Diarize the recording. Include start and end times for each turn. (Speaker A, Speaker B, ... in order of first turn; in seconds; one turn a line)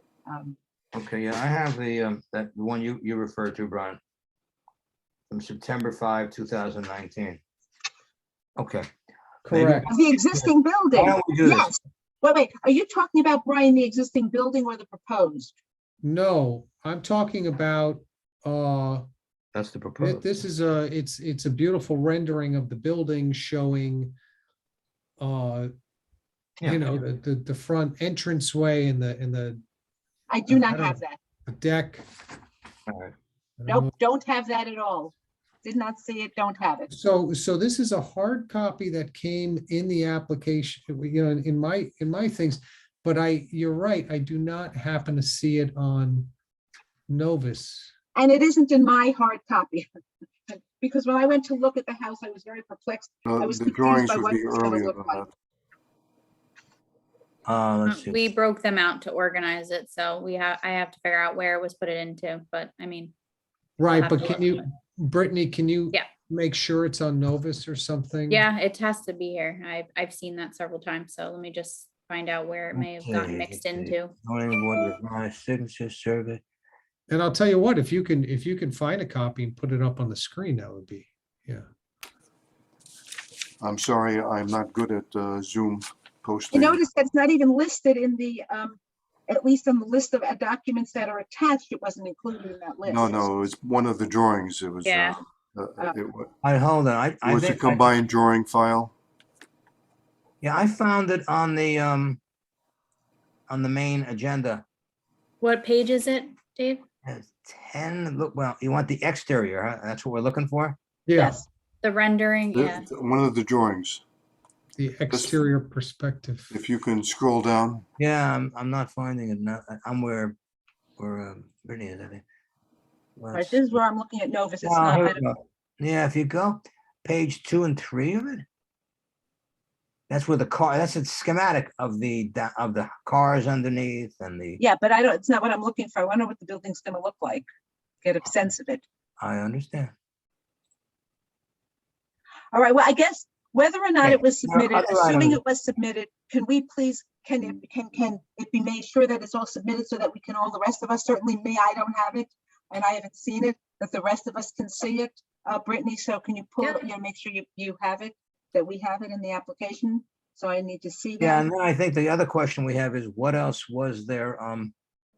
Speaker A: 0.3-0.6
Speaker B: 0.9-4.0
Speaker B: 5.3-7.4
Speaker B: 8.6-8.9
Speaker C: 9.4-9.9
Speaker B: 9.5-11.7
Speaker A: 9.9-15.6
Speaker C: 16.0-19.1
Speaker B: 19.5-20.3
Speaker C: 20.0-24.1
Speaker C: 25.2-25.7
Speaker B: 26.6-26.9
Speaker C: 26.6-29.6
Speaker A: 30.3-31.2
Speaker C: 30.5-32.0
Speaker B: 32.9-33.1
Speaker C: 33.6-33.9
Speaker A: 33.7-36.9
Speaker C: 36.9-46.3
Speaker C: 47.1-47.9
Speaker A: 48.1-49.9
Speaker A: 50.5-55.2
Speaker D: 53.2-55.3
Speaker B: 57.5-58.3
Speaker E: 57.9-63.1
Speaker C: 63.8-68.5
Speaker E: 63.9-64.6
Speaker E: 68.3-74.1
Speaker B: 72.7-76.4
Speaker C: 77.1-81.7
Speaker D: 83.6-86.8
Speaker A: 86.5-93.3
Speaker D: 92.8-96.3
Speaker E: 94.8-95.2
Speaker B: 96.4-98.0
Speaker D: 97.2-98.9
Speaker B: 100.4-102.2
Speaker B: 103.5-104.6
Speaker E: 105.4-106.8
Speaker B: 107.0-110.8
Speaker C: 111.1-111.4
Speaker A: 111.2-111.4
Speaker E: 111.8-112.8
Speaker D: 112.5-114.0
Speaker C: 114.8-116.5
Speaker D: 115.1-115.4
Speaker D: 116.5-117.8
Speaker B: 118.0-120.3
Speaker B: 121.0-122.2
Speaker B: 123.2-123.7
Speaker A: 123.3-125.2
Speaker B: 124.6-128.4
Speaker B: 130.1-134.6
Speaker A: 134.6-137.4
Speaker A: 138.0-138.8
Speaker B: 139.2-139.9
Speaker A: 142.5-161.5
Speaker B: 144.0-145.4
Speaker B: 161.2-164.7